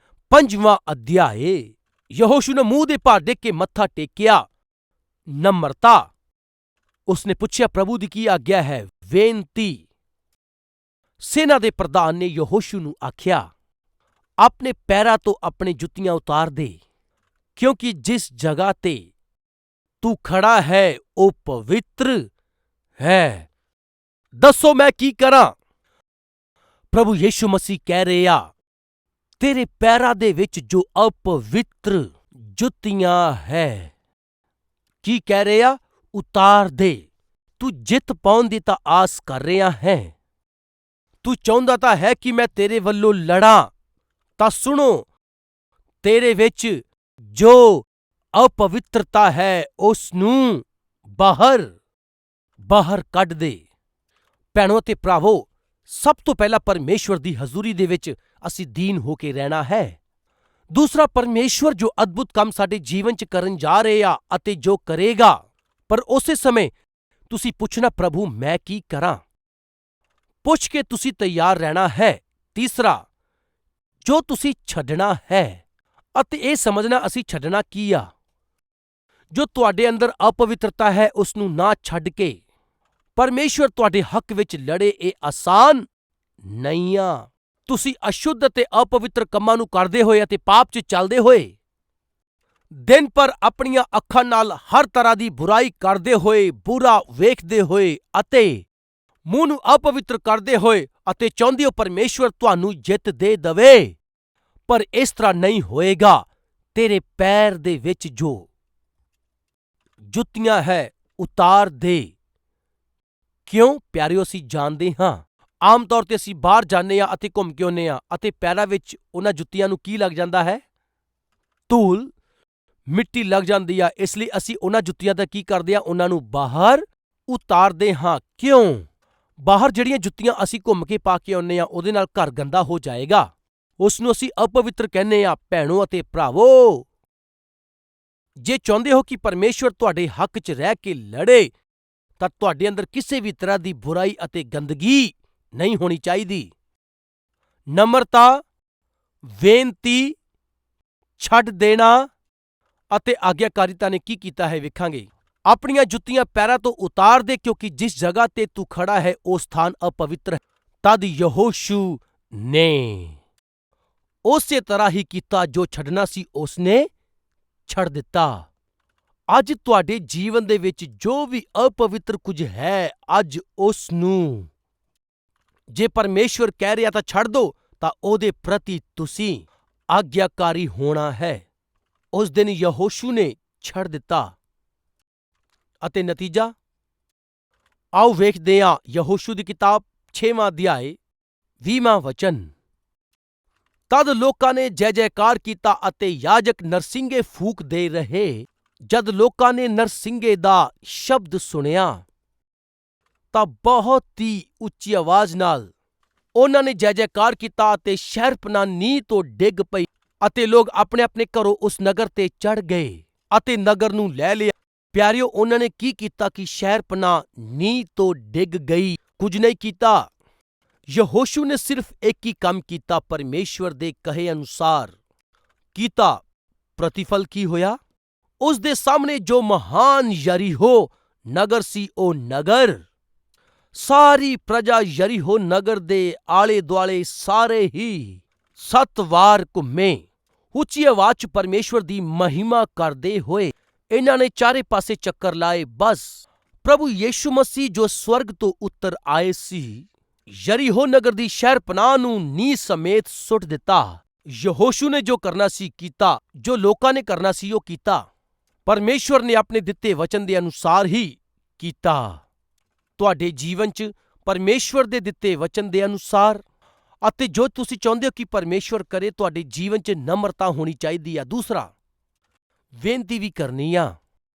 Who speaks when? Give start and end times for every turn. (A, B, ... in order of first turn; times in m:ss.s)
0:00.3-0:04.5 A
0:05.3-0:06.1 A
0:07.1-0:09.8 A
0:11.2-0:13.5 A
0:14.4-0:16.8 A
0:17.6-0:19.1 A
0:20.0-0:22.3 A
0:23.0-0:23.5 A
0:24.4-0:25.6 A
0:26.9-0:28.5 A
0:29.4-0:33.9 A
0:35.0-0:37.1 A
0:37.6-0:40.1 A
0:41.2-0:43.7 A
0:44.4-0:45.1 A
0:46.0-0:51.7 A
0:52.6-0:53.6 A
0:54.5-1:00.0 A
1:00.7-1:06.7 A
1:07.3-1:09.2 A
1:10.4-1:13.0 A
1:14.0-1:15.6 A
1:16.2-1:18.1 A
1:19.3-1:22.4 A
1:23.2-1:25.9 A
1:26.5-1:31.5 A
1:32.7-1:38.7 A
1:39.3-1:44.0 A
1:44.7-1:48.5 A
1:50.1-1:52.1 A
1:53.5-2:00.6 A
2:01.7-2:02.1 A
2:02.9-2:08.9 A
2:09.4-2:13.3 A
2:13.8-2:16.9 A
2:18.4-2:21.5 A
2:22.2-2:26.5 A
2:27.7-2:28.4 A
2:29.3-2:30.2 A
2:31.2-2:32.1 A
2:32.9-2:43.2 A
2:44.2-2:46.9 A
2:47.7-2:48.5 A
2:49.3-2:54.5 A
2:55.7-3:01.5 A
3:02.1-3:04.4 A
3:05.8-3:06.5 A
3:07.9-3:11.0 A
3:11.6-3:12.5 A
3:13.9-3:22.0 A
3:23.3-3:25.7 A
3:26.3-3:40.1 A
3:40.9-3:44.9 A
3:45.8-3:46.2 A
3:46.8-3:47.8 A
3:48.4-3:52.8 A
3:53.7-4:18.1 A
4:18.7-4:22.2 A
4:23.0-4:26.4 A
4:27.0-4:31.7 A
4:32.8-4:34.0 A